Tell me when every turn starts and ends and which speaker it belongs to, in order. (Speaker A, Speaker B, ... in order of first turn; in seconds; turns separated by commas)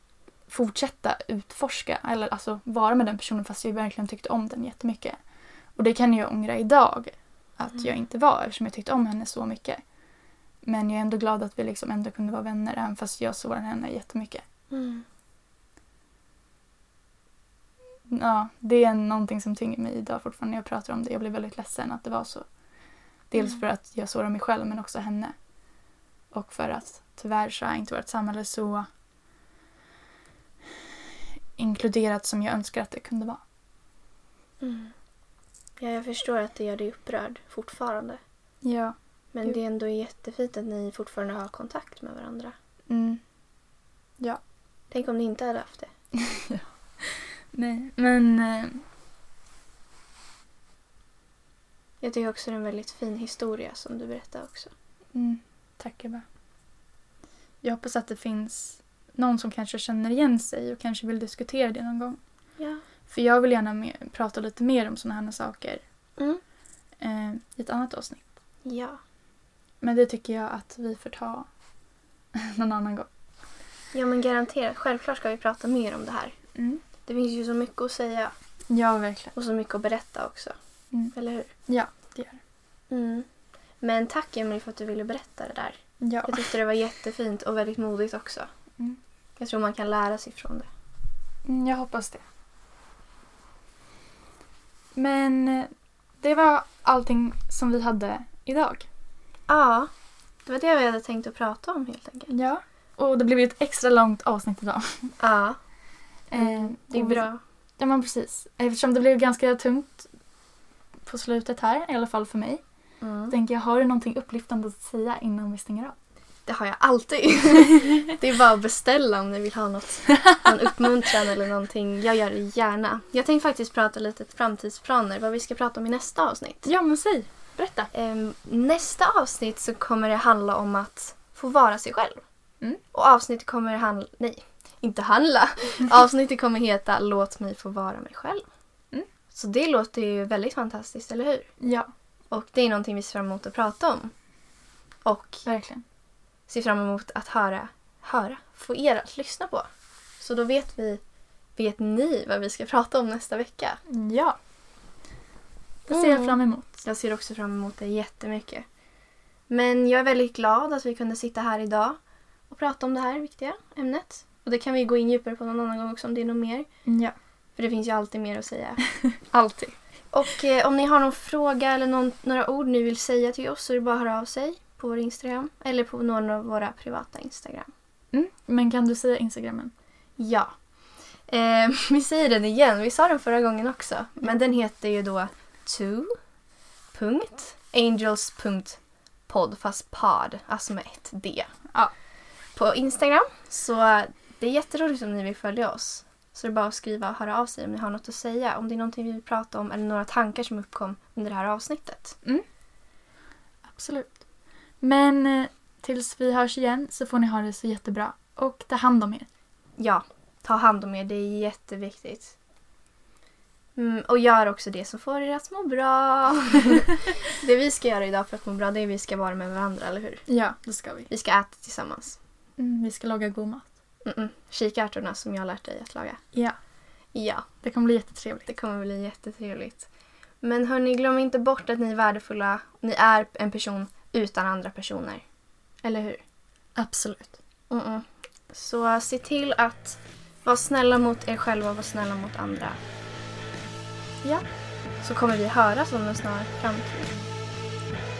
Speaker A: 0.5-5.2, Speaker A: 5.8-9.8, Speaker A: 10.6-14.4, Speaker B: 14.7-15.1, Speaker A: 18.1-22.5, Speaker A: 23.3-25.4, Speaker A: 26.3-28.9, Speaker A: 31.6-33.4, Speaker B: 34.6-34.9, Speaker B: 35.8-38.2, Speaker A: 38.6-39.0, Speaker B: 39.3-42.5, Speaker A: 42.9-43.2, Speaker B: 44.9-45.9, Speaker A: 46.1-48.8, Speaker B: 52.0-54.7, Speaker A: 55.1-56.2, Speaker A: 57.6-62.2, Speaker A: 63.1-65.8, Speaker A: 67.0-68.3, Speaker B: 68.7-69.0, Speaker A: 69.8-71.5, Speaker A: 72.3-73.1, Speaker B: 73.9-76.3, Speaker A: 76.5-76.8, Speaker B: 77.0-78.3, Speaker A: 78.7-79.3, Speaker B: 79.4-80.6, Speaker B: 81.1-81.5, Speaker A: 81.7-82.4, Speaker B: 82.9-83.3, Speaker B: 83.8-88.5, Speaker A: 86.0-86.5, Speaker B: 89.4-90.7, Speaker A: 91.5-92.2, Speaker A: 95.0-98.9, Speaker B: 99.5-99.9, Speaker B: 100.5-102.3, Speaker A: 102.3-105.1, Speaker B: 105.2-105.6, Speaker A: 106.3-107.2, Speaker B: 106.4-107.4, Speaker A: 107.8-110.1, Speaker A: 111.1-112.6, Speaker B: 113.0-113.3, Speaker A: 113.3-116.0, Speaker B: 116.5-126.7, Speaker A: 126.7-127.9, Speaker B: 127.9-132.2, Speaker B: 132.9-138.5, Speaker B: 139.3-141.5, Speaker A: 141.6-141.9, Speaker B: 142.3-144.1, Speaker B: 145.1-145.4, Speaker A: 145.4-145.8, Speaker B: 146.5-149.7, Speaker B: 150.2-151.0, Speaker B: 151.6-153.8, Speaker A: 153.9-154.4, Speaker A: 155.9-156.8, Speaker B: 155.9-158.7, Speaker B: 159.5-162.0, Speaker B: 162.5-166.7, Speaker A: 166.8-167.2, Speaker B: 167.6-168.8, Speaker A: 169.0-169.8, Speaker B: 170.1-177.7, Speaker A: 178.1-179.7, Speaker B: 180.2-180.5, Speaker B: 181.3-186.1, Speaker B: 186.9-191.6, Speaker B: 192.6-202.2, Speaker A: 203.7-204.2, Speaker A: 204.8-209.3, Speaker B: 209.8-212.3, Speaker B: 213.8-220.3, Speaker A: 220.3-221.1, Speaker B: 221.1-222.2, Speaker A: 222.6-223.7, Speaker B: 224.1-226.2, Speaker B: 227.1-227.5, Speaker A: 227.6-228.5, Speaker B: 228.5-229.9, Speaker B: 230.4-235.2, Speaker B: 235.8-236.2, Speaker A: 236.8-237.4, Speaker B: 237.7-242.8, Speaker B: 245.0-247.1